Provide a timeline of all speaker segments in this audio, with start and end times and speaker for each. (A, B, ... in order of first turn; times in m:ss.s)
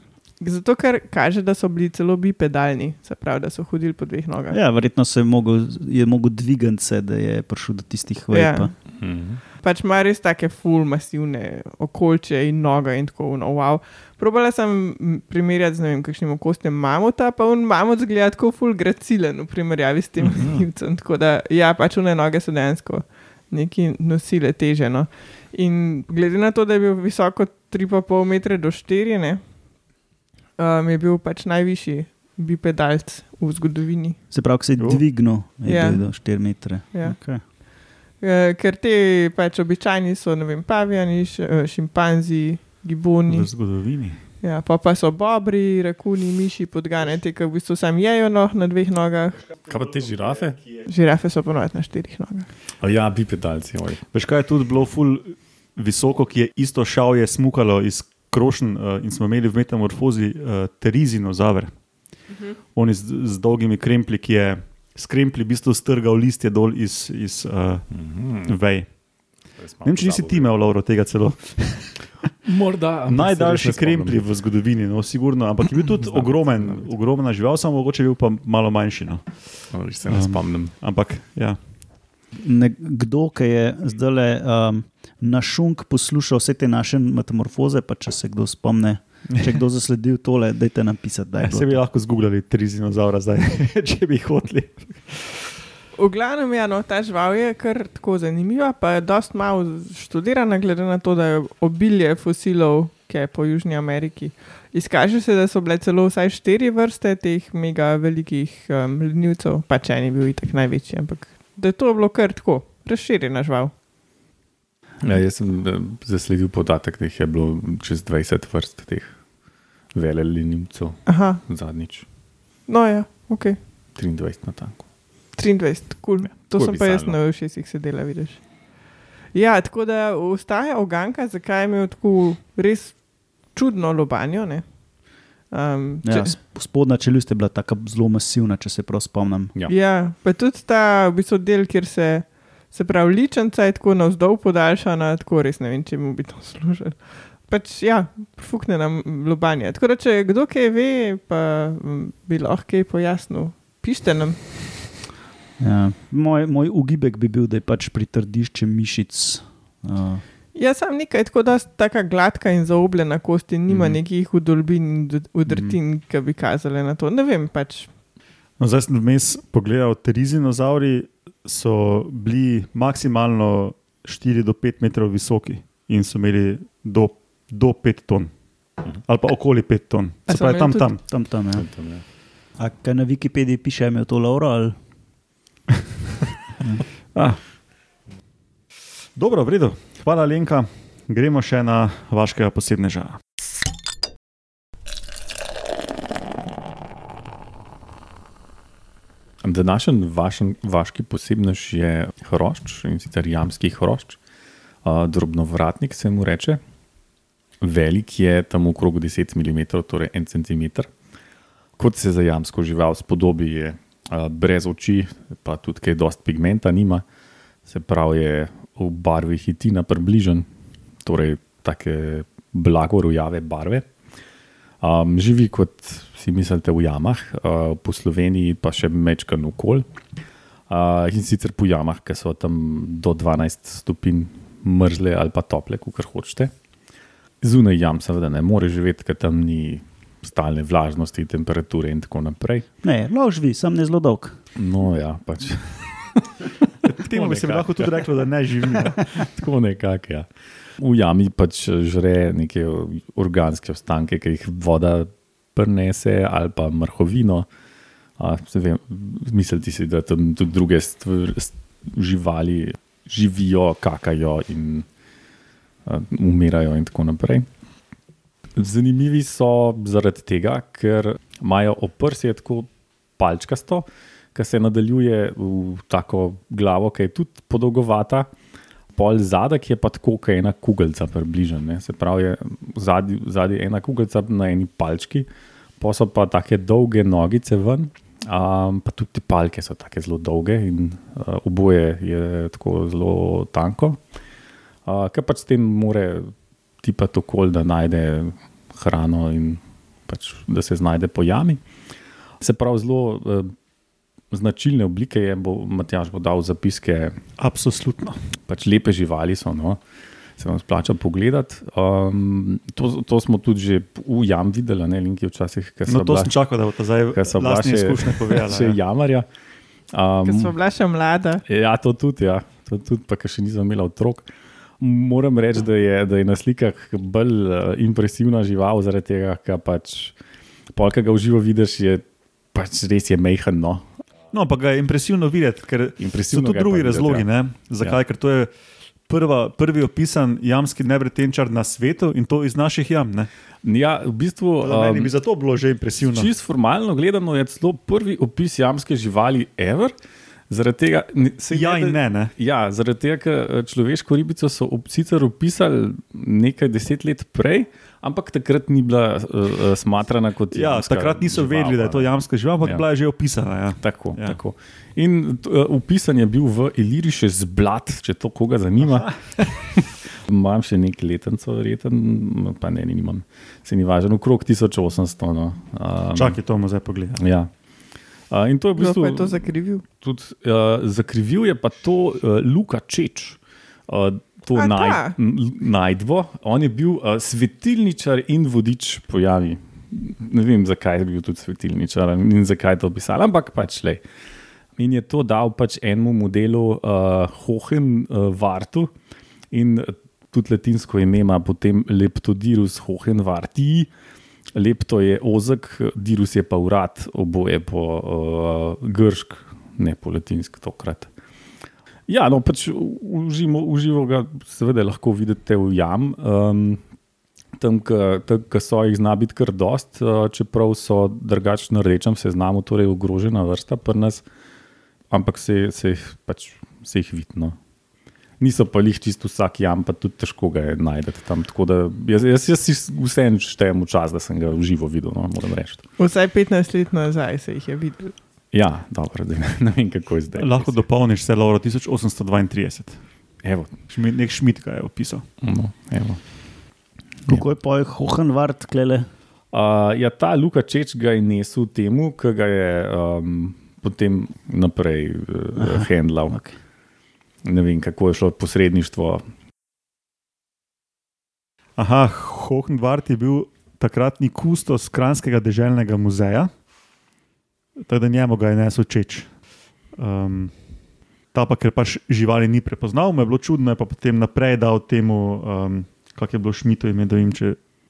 0:00.4-0:04.6 A
0:04.5-0:08.7 B
0:08.3-0:29.4 A
0:09.0-0:09.4 C
0:20.2-0:20.6 C
0:30.6-0:34.2 A
0:34.3-0:37.4 B
0:34.8-0:35.0 D
0:35.6-0:37.6 A
0:38.2-0:43.5 A
0:43.3-0:44.2 D
0:44.4-0:49.4 A
0:49.6-0:50.7 C
0:50.8-0:52.5 A
0:52.8-0:54.0 C
0:54.1-1:01.8 D
1:02.7-1:09.0 D
1:07.9-1:08.6 C
1:09.5-1:10.5 C
1:09.8-1:12.1 D
1:12.5-1:14.2 C
1:13.1-1:21.6 D
1:15.7-1:16.9 C
1:19.7-1:20.7 C
1:22.4-1:31.8 B
1:31.4-1:35.5 D
1:36.0-1:53.7 A
1:55.0-1:59.3 C
1:59.9-2:02.1 C
2:01.1-2:01.4 A
2:02.6-2:03.6 A
2:04.0-2:04.9 C
2:05.4-2:14.8 A
2:06.3-2:07.2 C
2:15.4-2:16.4 A
2:16.0-2:19.5 B
2:19.7-2:34.9 A
2:35.6-2:40.2 B
2:40.5-2:47.9 A
2:45.5-2:45.8 B
2:48.6-3:01.0 D
3:00.3-3:00.9 A
3:01.1-3:01.7 B
3:01.5-3:02.0 C
3:02.6-3:04.8 B
3:07.1-3:07.4 D
3:09.2-3:13.2 D
3:19.4-3:24.2 C
3:24.8-3:26.6 C
3:27.6-3:30.9 C
3:31.8-3:37.0 C
3:37.6-3:40.4 C
3:41.0-3:43.9 C
3:44.8-3:49.9 C
3:50.7-3:56.5 C
3:57.4-4:02.6 C
4:02.8-4:04.4 B
4:04.6-4:06.3 C
4:06.8-4:09.0 D
4:07.0-4:08.1 C
4:08.7-4:10.3 C
4:10.8-4:17.5 C
4:18.2-4:24.9 C
4:25.9-4:27.4 C
4:28.6-4:38.3 C
4:38.9-4:45.3 C
4:45.8-4:54.0 C
4:54.9-4:56.3 C
4:56.8-5:01.6 C
5:02.4-5:03.5 C
5:04.3-5:07.2 C
5:07.4-5:08.2 D
5:08.5-5:09.8 C
5:10.4-5:16.4 C
5:15.9-5:18.8 D
5:17.1-5:19.3 C
5:19.9-5:20.5 C
5:20.2-5:21.4 A
5:21.5-5:24.2 C
5:24.8-5:30.1 C
5:30.7-5:33.8 C
5:34.3-5:38.5 D
5:36.0-5:37.3 C
5:39.1-5:43.3 D
5:43.6-5:45.1 C
5:44.6-5:46.3 D
5:46.0-5:49.9 C
5:50.5-6:02.1 C
5:51.5-5:52.3 D
6:00.5-6:04.4 D
6:03.8-6:16.4 C
6:08.9-6:09.5 D
6:16.1-6:17.2 D
6:17.2-6:17.5 C
6:18.3-6:34.0 C
6:18.8-6:19.8 A
6:24.6-6:25.1 A
6:34.8-6:38.9 C
6:39.5-6:43.9 C
6:44.6-6:51.1 C
6:52.1-6:56.8 C
6:57.6-7:04.2 C
7:05.1-7:07.6 C
7:08.4-7:15.8 C
7:16.0-7:18.1 A
7:18.5-7:20.8 C
7:20.4-7:23.0 D
7:23.4-7:23.7 C
7:23.9-7:25.3 D
7:25.4-7:26.6 C
7:27.3-7:29.1 B
7:29.5-7:36.4 C
7:35.6-7:36.6 B
7:37.4-7:39.2 C
7:41.8-7:46.5 D
7:47.8-7:49.3 D
7:49.9-7:50.6 D
7:51.3-7:57.6 D